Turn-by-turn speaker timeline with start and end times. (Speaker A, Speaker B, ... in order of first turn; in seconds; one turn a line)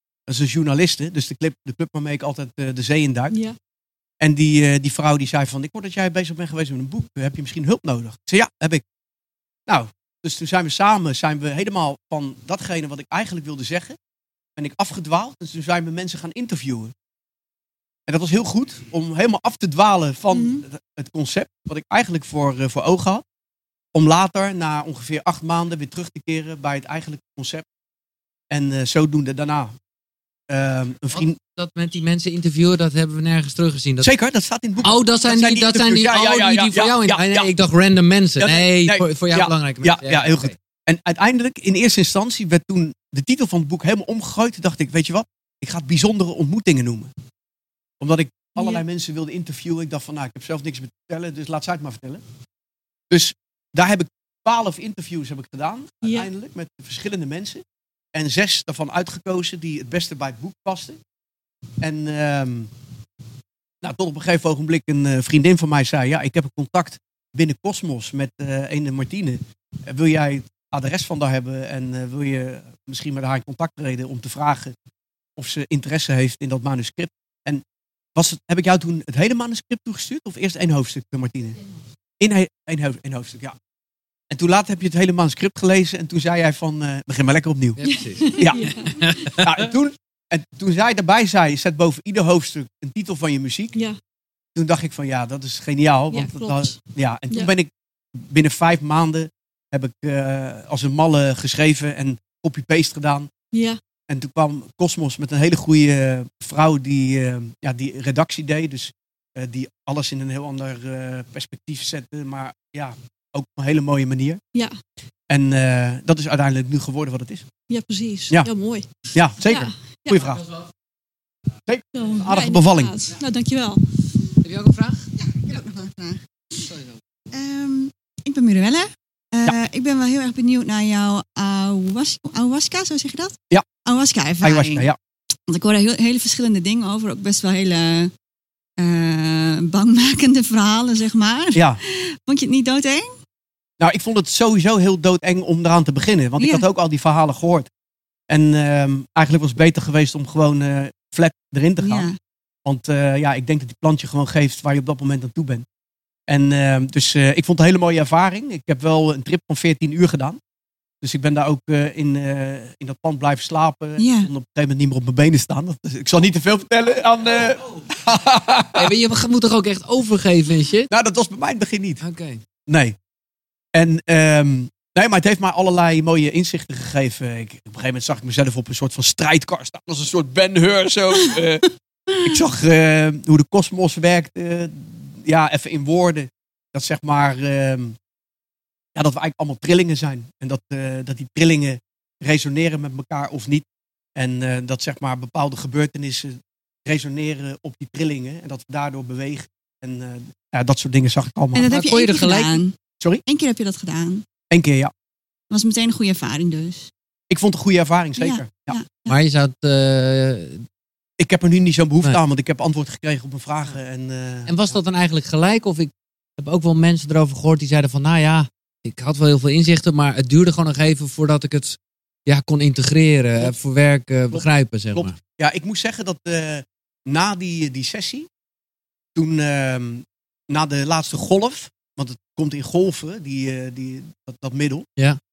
Speaker A: 0.3-3.4
Speaker A: 4.2-8.8
Speaker A: 9.7-13.9
Speaker A: 14.6-16.9
Speaker A: 18.1-23.2
Speaker B: 20.3-20.6
Speaker A: 23.9-27.6
Speaker A: 28.5-29.8
Speaker A: 30.5-31.4
Speaker C: 31.1-34.1
Speaker A: 34.0-37.5
Speaker C: 34.8-40.5
Speaker A: 38.4-47.1
Speaker A: 48.0-52.2
Speaker B: 48.6-48.8
Speaker A: 53.1-57.6
Speaker B: 56.0-56.3
Speaker A: 58.1-61.0
Speaker A: 61.8-62.7
Speaker A: 63.8-74.7
Speaker A: 75.3-77.6
Speaker A: 78.1-81.6
Speaker A: 82.2-83.5
Speaker A: 84.3-87.8
Speaker C: 87.8-89.6
Speaker A: 88.3-88.6
Speaker B: 88.3-89.1
Speaker A: 89.2-93.8
Speaker A: 94.5-103.3
Speaker B: 96.1-96.8
Speaker B: 103.5-103.8
Speaker A: 104.1-114.4
Speaker A: 115.3-117.5
Speaker B: 117.7-120.3
Speaker A: 119.1-120.4
Speaker A: 121.7-123.0
Speaker B: 121.9-123.8
Speaker C: 124.4-125.1
Speaker D: 125.5-126.2
Speaker C: 126.7-126.9
Speaker D: 127.3-134.9
Speaker A: 134.4-135.0
Speaker D: 135.5-138.1
Speaker D: 138.8-143.2
Speaker A: 143.8-147.7
Speaker D: 146.4-146.7
Speaker A: 148.3-152.1
Speaker D: 151.8-152.2
Speaker A: 152.7-155.7
Speaker A: 156.3-160.4
Speaker A: 161.0-168.9
Speaker D: 164.0-164.3
Speaker C: 168.7-170.9
Speaker A: 170.9-172.0
Speaker C: 172.0-172.4
Speaker A: 172.7-172.9
Speaker A: 173.7-181.7
Speaker A: 182.2-188.0
Speaker A: 188.9-201.6
Speaker D: 201.5-202.8
Speaker C: 201.6-202.6
Speaker D: 203.3-204.2
Speaker A: 204.5-204.9
Speaker D: 205.5-206.9
Speaker A: 207.3-208.8
Speaker D: 208.2-209.1
Speaker C: 209.1-210.7
Speaker A: 211.2-214.5
Speaker C: 214.5-225.2
Speaker A: 224.3-228.3
Speaker A: 229.2-234.9